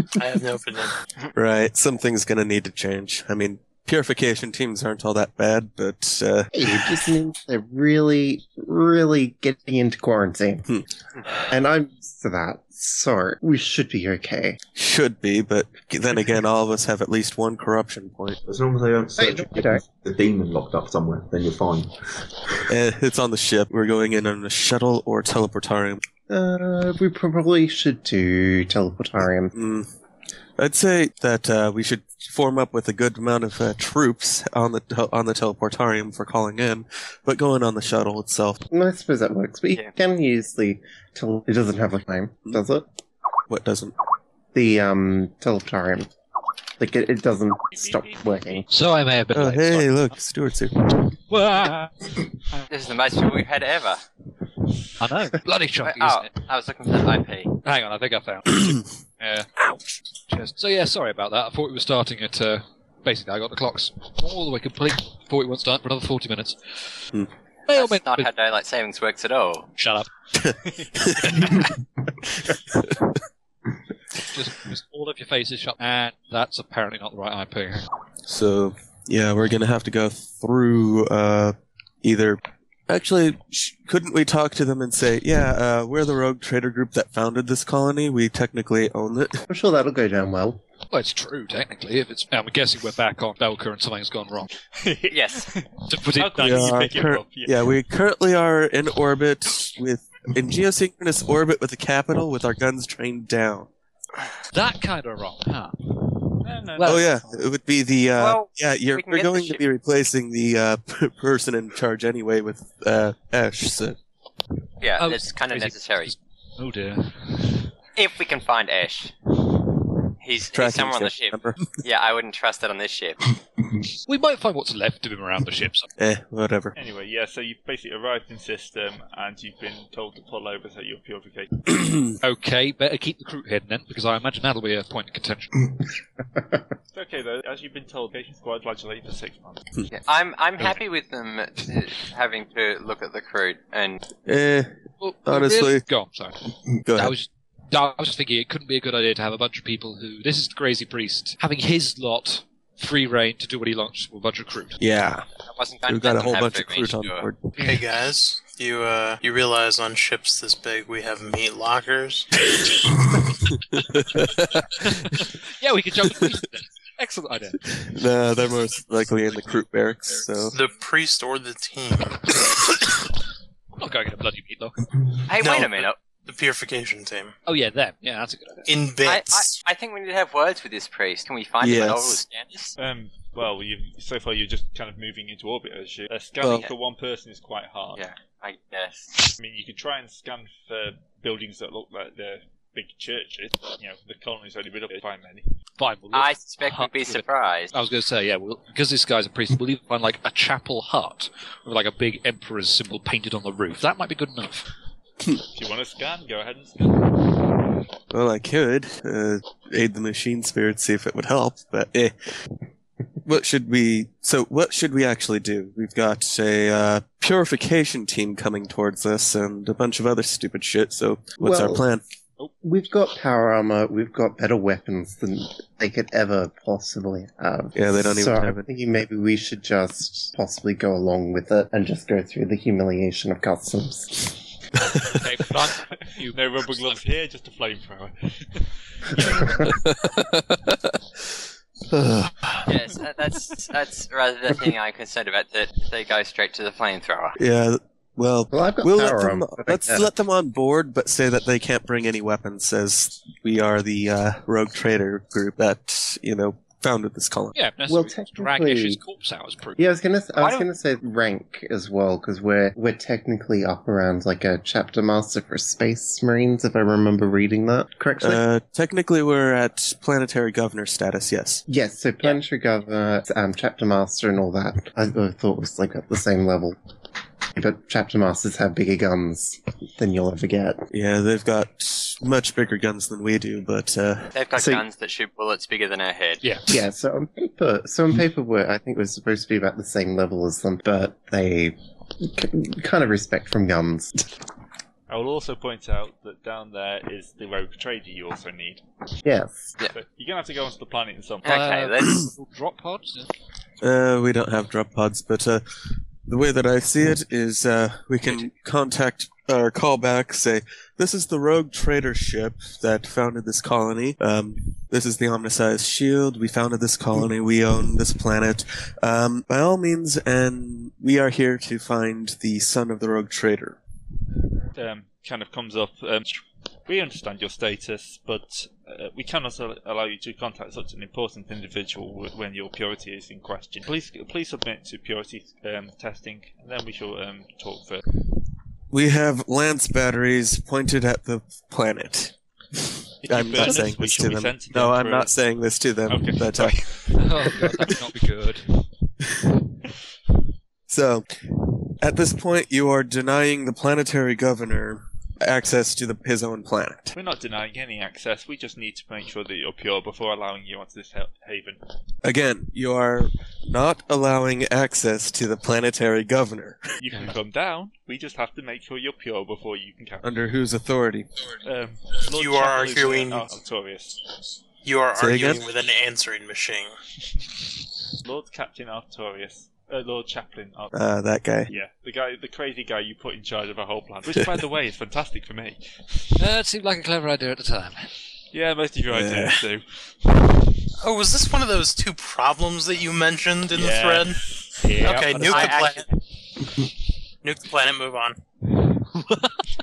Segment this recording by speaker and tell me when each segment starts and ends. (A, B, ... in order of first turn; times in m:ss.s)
0:00.2-0:01.3 A
0:01.4-0:07.1 B
0:06.6-0:10.7 C
0:11.5-0:14.6 C
0:14.8-0:18.4 B
0:18.5-0:22.4 D
0:19.2-0:19.8 C
0:22.7-0:26.0 B
0:26.3-0:29.5 C
0:29.5-0:29.9 B
0:30.6-0:38.6 B
0:38.7-0:42.9 C
0:43.5-0:43.9 B
0:44.5-0:46.1 C
0:46.8-0:48.6 C
0:47.7-0:48.6 E
0:48.7-0:50.1 F
0:49.3-0:50.8 B
0:51.3-0:51.9 F
0:52.7-0:54.0 G
0:55.0-0:56.3 F
0:55.8-0:57.5 G
0:57.6-0:59.6 F
1:00.3-1:07.1 F
1:07.7-1:08.3 F
1:07.7-1:09.7 G
1:09.8-1:10.1 F
1:10.4-1:11.4 B
1:14.3-1:17.9 F
1:18.2-1:29.4 B
1:29.5-1:30.6 C
1:30.9-1:34.5 F
1:34.8-1:37.7 E
1:35.1-1:35.5 G
1:35.9-1:36.8 F
1:36.4-1:43.7 B
1:44.5-1:45.8 F
1:46.4-1:47.3 E
1:46.8-1:47.1 F
1:46.8-1:54.0 B
1:48.2-1:49.6 G
1:54.8-1:56.1 G
1:55.0-1:57.6 F
1:58.0-1:59.1 G
2:00.2-2:03.2 G
2:00.5-2:01.6 B
2:04.1-2:05.9 F
2:06.0-2:06.8 B
2:06.8-2:11.7 E
2:12.2-2:15.7 F
2:16.9-2:19.6 E
2:19.9-2:24.0 G
2:24.3-2:24.7 B
2:25.0-2:26.4 F
2:25.3-2:25.8 B
2:26.9-2:27.1 B
2:26.9-2:34.8 F
2:34.8-2:35.3 B
2:35.4-2:37.3 G
2:35.9-2:37.5 B
2:37.6-2:42.3 A
2:43.7-2:44.7 B
2:44.8-2:47.7 F
2:47.7-2:50.6 B
2:50.5-2:52.5 A
2:53.8-2:54.8 F
2:55.3-2:56.0 G
2:55.3-2:57.3 A
2:57.5-2:58.7 F
2:58.7-2:59.6 A
2:59.0-3:02.8 G
3:01.6-3:02.2 B
3:02.8-3:08.0 E
3:06.4-3:06.7 B
3:08.0-3:09.3 G
3:09.4-3:15.4 E
3:15.8-3:24.7 F
3:16.1-3:17.7 G
3:25.5-3:27.5 E
3:28.1-3:32.1 B
3:33.2-3:42.0 B
3:41.4-3:41.8 C
3:42.6-3:54.3 C
3:47.7-3:48.6 B
3:55.0-3:57.0 F
3:56.2-3:59.5 E
3:59.2-3:59.7 C
3:59.5-4:02.7 B
4:02.7-4:07.4 G
4:07.4-4:17.6 B
4:08.5-4:10.1 C
4:17.5-4:19.8 F
4:17.9-4:19.0 C
4:19.8-4:28.4 C
4:20.4-4:20.7 G
4:28.2-4:31.6 B
4:31.7-4:36.8 C
4:37.6-4:40.8 C
4:40.9-4:44.3 B
4:44.3-4:46.5 G
4:44.6-4:44.8 C
4:46.7-4:54.3 C
4:55.1-4:58.8 E
4:59.2-4:59.7 C
4:59.8-5:01.6 E
5:01.4-5:02.2 G
5:01.4-5:03.3 F
5:03.8-5:05.6 B
5:06.3-5:23.8 B
5:24.8-5:38.0 E
5:38.9-5:46.8 B
5:43.2-5:45.4 E
5:46.1-5:47.7 E
5:47.2-5:48.7 F
5:50.9-5:51.3 B
5:52.0-5:57.1 B
5:57.1-6:01.8 E
6:02.2-6:06.9 B
6:07.0-6:10.3 E
6:10.2-6:11.3 B
6:11.6-6:14.2 E
6:12.4-6:13.5 A
6:14.8-6:17.0 A
6:15.2-6:15.6 B
6:18.2-6:21.0 E
6:20.9-6:21.7 B
6:21.7-6:26.3 E
6:26.4-6:28.2 F
6:28.5-6:30.3 E
6:29.1-6:29.6 B
6:31.0-6:34.4 A
6:33.7-6:36.0 E
6:35.0-6:36.1 A
6:35.4-6:36.1 G
6:37.4-6:38.4 A
6:39.2-6:39.6 F